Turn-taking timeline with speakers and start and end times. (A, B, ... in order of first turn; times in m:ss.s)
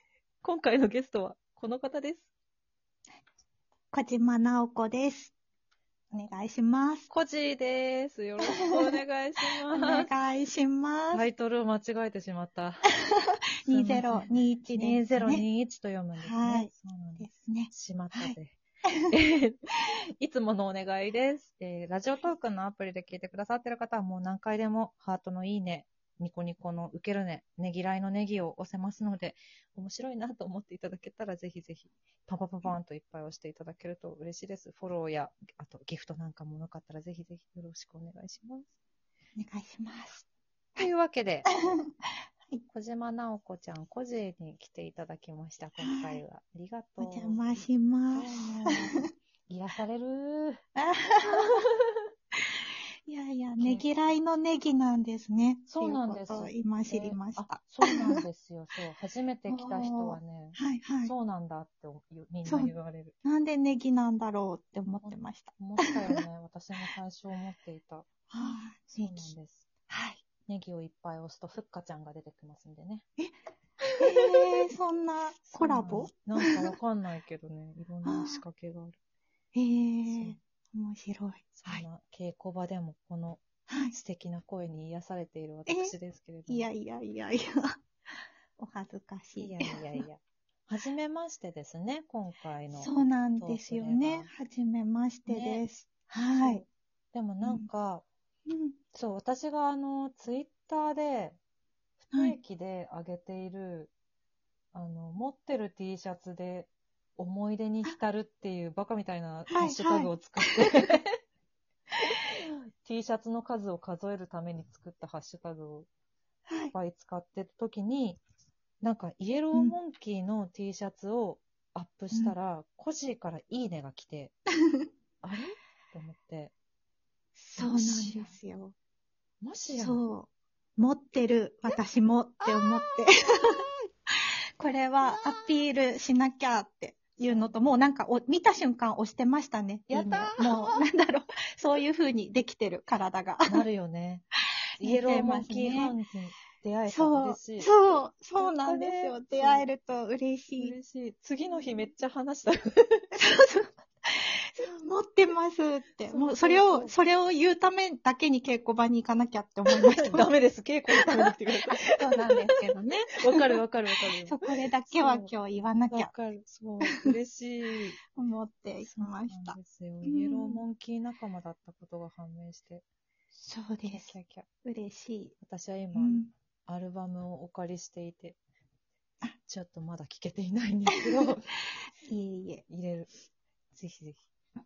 0:00.4-0:02.3 A
0:03.9-0:05.3 B
0:06.1-0:07.1 B
0:07.1-0:10.1 A
0:08.5-0:08.9 B
0:09.7-0:11.2 B
0:11.1-0:12.9 A
0:12.9-0:15.5 B
0:13.7-0:38.7 A
0:16.2-0:19.1 B
0:39.4-0:40.3 B
0:40.8-0:41.5 A
0:41.5-0:41.9 B
0:42.7-0:50.6 A
0:45.8-0:46.2 B
0:47.0-0:49.0 B
0:50.8-0:51.6 B
0:51.2-0:51.6 A
0:53.1-0:58.2 B
0:53.6-0:53.8 A
0:55.7-1:03.1 A
0:59.5-1:01.1 B
1:02.5-1:02.7 B
1:03.2-1:06.2 B
1:05.0-1:08.1 A
1:08.3-1:09.3 B
1:08.9-1:09.7 A
1:09.9-1:10.2 B
1:10.5-1:13.1 A
1:14.0-1:16.7 B
1:14.2-1:14.5 A
1:15.4-1:19.0 A
1:18.0-1:18.4 B
1:19.5-1:21.8 B
1:20.1-1:20.4 A
1:21.5-1:26.7 A
1:23.7-1:24.0 B
1:25.7-1:25.9 B
1:26.5-1:27.8 B
1:28.6-1:30.0 B
1:29.4-1:34.3 A
1:32.7-1:36.6 B
1:35.3-1:35.6 A
1:36.3-1:38.0 A
1:38.5-1:38.8 B
1:38.9-1:41.4 A
1:42.0-1:43.9 A
1:42.1-1:42.4 B
1:44.7-1:51.2 A
1:49.5-1:50.9 B
1:52.3-1:55.9 A
1:56.5-1:56.7 B
1:56.7-1:58.2 A
1:58.8-2:04.4 A
2:05.2-2:06.5 A
2:07.4-2:08.8 B
2:07.6-2:08.3 A
2:09.4-2:10.0 A
2:09.8-2:23.6 B
2:12.4-2:13.1 A
2:15.0-2:15.5 A
2:17.2-2:17.7 A
2:19.9-2:20.8 A
2:23.5-2:24.2 A
2:24.8-2:27.7 A
2:24.8-2:26.0 B
2:26.9-2:30.8 B
2:28.4-2:29.7 A
2:30.6-2:33.1 A
2:33.2-2:40.3 B
2:36.1-2:36.9 A
2:39.7-2:45.3 A
2:40.9-2:43.4 B
2:44.3-2:46.1 B
2:45.9-2:48.0 A
2:46.8-2:47.1 B
2:48.1-2:50.6 B
2:48.8-2:52.8 A
2:53.3-2:55.4 B
2:53.8-2:54.5 A
2:55.4-2:58.4 A
2:55.9-2:56.3 B
2:59.4-3:01.5 A
3:02.0-3:02.6 B
3:02.7-3:03.1 A
3:03.7-3:04.2 A